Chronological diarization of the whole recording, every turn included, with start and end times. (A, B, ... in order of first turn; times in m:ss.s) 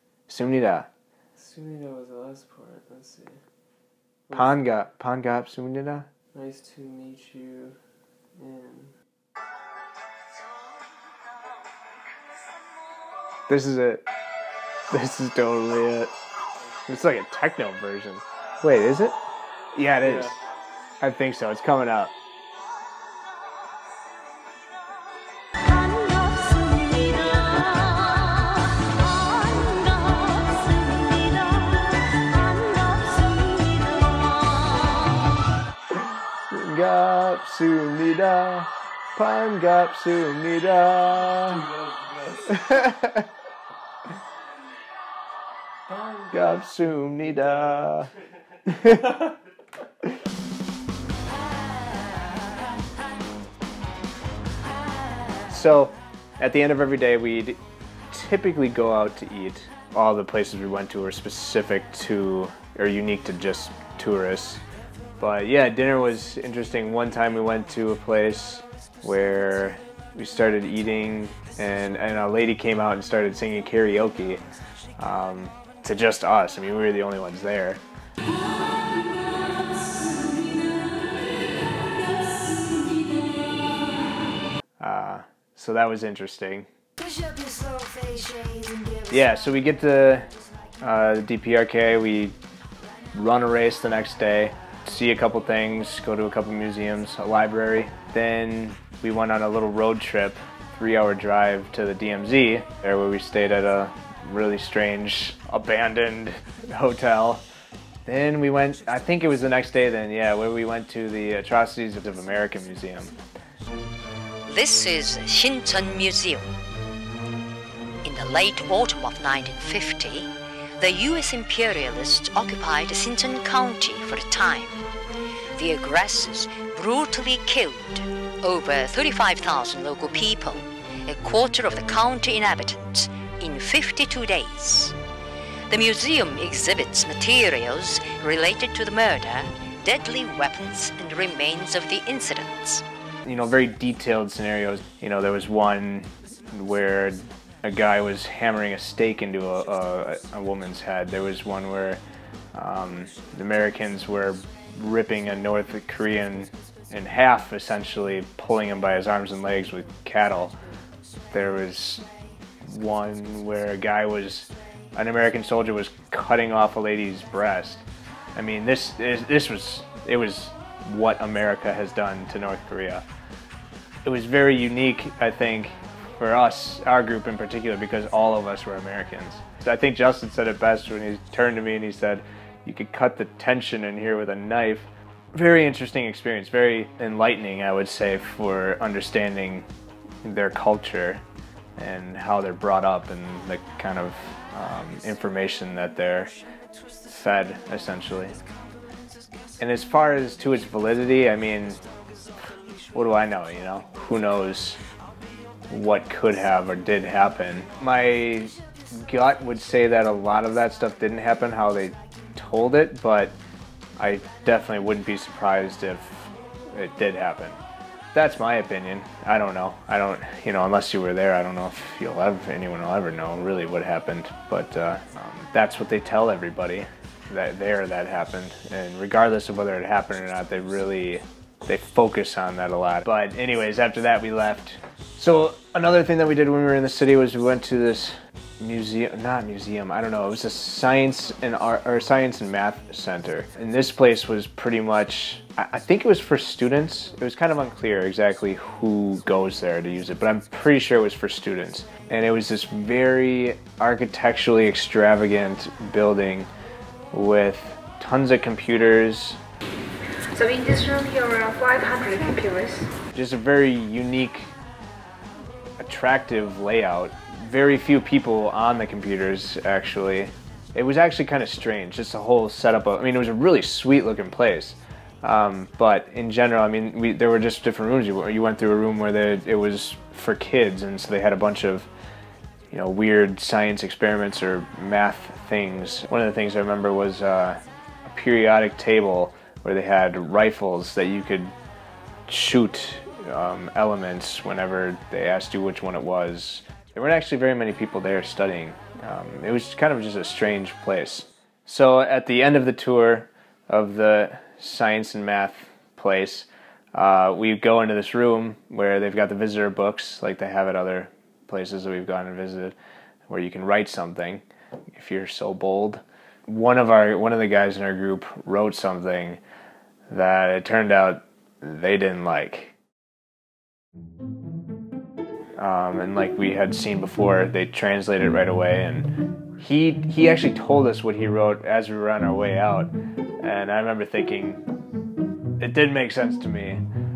0:00.3-0:00.9 A
0:01.3-0:03.4 B
0:04.3-0:04.6 B
0:04.3-0:06.1 A
0:06.3-0:07.8 B
0:08.4-0:08.9 B
0:13.5-0:14.0 A
0:14.9-0:16.1 A
0:16.9-0:19.2 A
0:19.7-0:20.4 A
0:21.0-0:22.2 A
0:25.9-0:26.8 C
0:27.7-0:28.4 D
0:29.6-0:29.9 C
0:35.9-0:41.7 A
0:41.9-0:42.3 B
0:42.5-0:43.2 A
0:45.9-0:46.3 B
0:46.3-0:48.1 A
0:48.6-0:49.2 A
0:55.5-0:57.6 A
0:58.1-1:04.6 A
1:05.2-1:14.4 A
1:15.0-1:17.8 A
1:19.0-1:20.8 C
1:22.1-1:23.3 C
1:24.8-1:26.7 A
1:27.0-1:29.0 C
1:29.0-1:30.3 A
1:30.8-1:32.4 A
1:33.1-1:47.4 A
1:48.0-1:53.1 A
1:54.4-1:56.5 D
1:58.0-2:04.8 D
2:05.5-2:14.9 D
2:15.7-2:22.8 D
2:23.2-2:32.0 A
2:32.5-2:40.6 A
2:41.3-2:42.0 A
2:42.6-2:47.8 A
2:48.4-2:53.0 A
2:54.0-3:09.7 A
3:10.2-3:11.2 A
3:11.8-3:16.3 A
3:17.0-3:18.4 A
3:19.6-3:21.8 A
3:22.9-3:24.8 A
3:25.7-3:33.4 A
3:34.0-3:37.6 A
3:38.1-4:16.5 A
4:17.1-4:19.4 A
4:20.3-4:22.9 C
4:23.1-4:24.5 A
4:25.8-4:41.9 A
4:42.7-4:51.5 A
4:52.3-5:12.8 A
5:13.3-5:19.4 A
5:20.1-5:22.8 A
5:25.6-5:34.6 A
5:35.6-5:36.8 A